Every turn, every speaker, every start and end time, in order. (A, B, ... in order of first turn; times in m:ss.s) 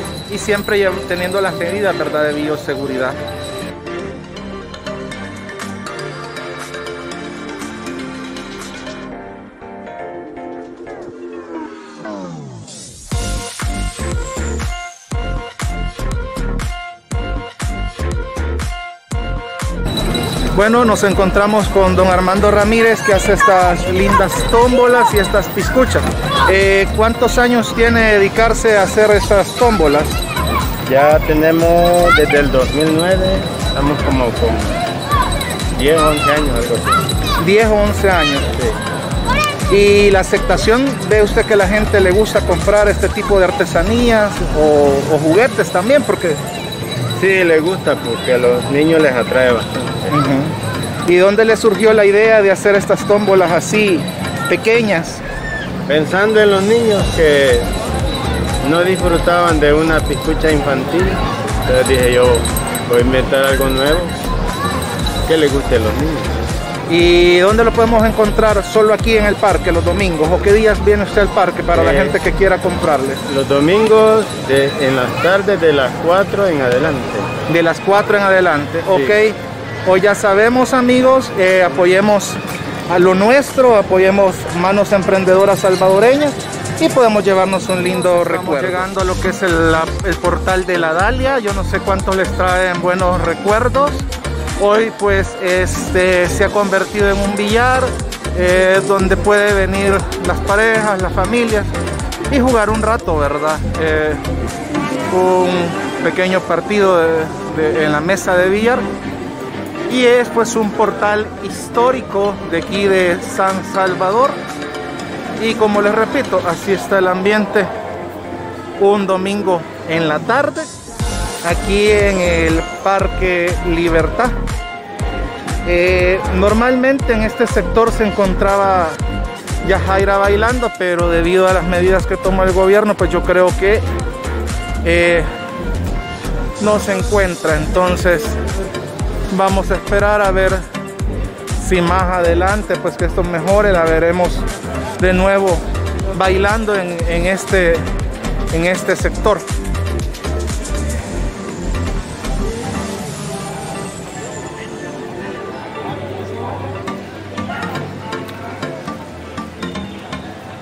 0:00.3-0:03.2 A
0:20.5-0:30.2 A
0:30.9-0:34.8 B
0:35.7-0:37.0 B
0:37.4-0:38.5 A
0:38.5-0:38.8 B
0:39.7-0:46.4 A
0:47.2-0:50.1 B
0:50.1-0:55.2 A
0:55.9-0:57.7 B
0:58.6-1:04.2 B
1:05.3-1:06.4 B
1:06.9-1:13.2 A
1:11.7-1:12.2 B
1:13.3-1:17.3 B
1:17.5-1:34.0 A
1:18.9-1:19.2 B
1:34.6-1:41.7 A
1:42.3-1:44.2 A
1:45.1-1:48.8 A
1:49.9-1:54.4 A
1:55.4-1:57.7 A
1:58.8-2:00.7 A
2:01.4-2:04.4 A
2:05.6-2:09.0 A
2:09.6-2:13.8 A
2:14.8-2:15.3 A
2:16.6-2:18.4 A
2:19.3-2:20.6 A
2:21.6-2:24.4 A
2:25.0-2:27.8 A
2:28.5-2:29.5 A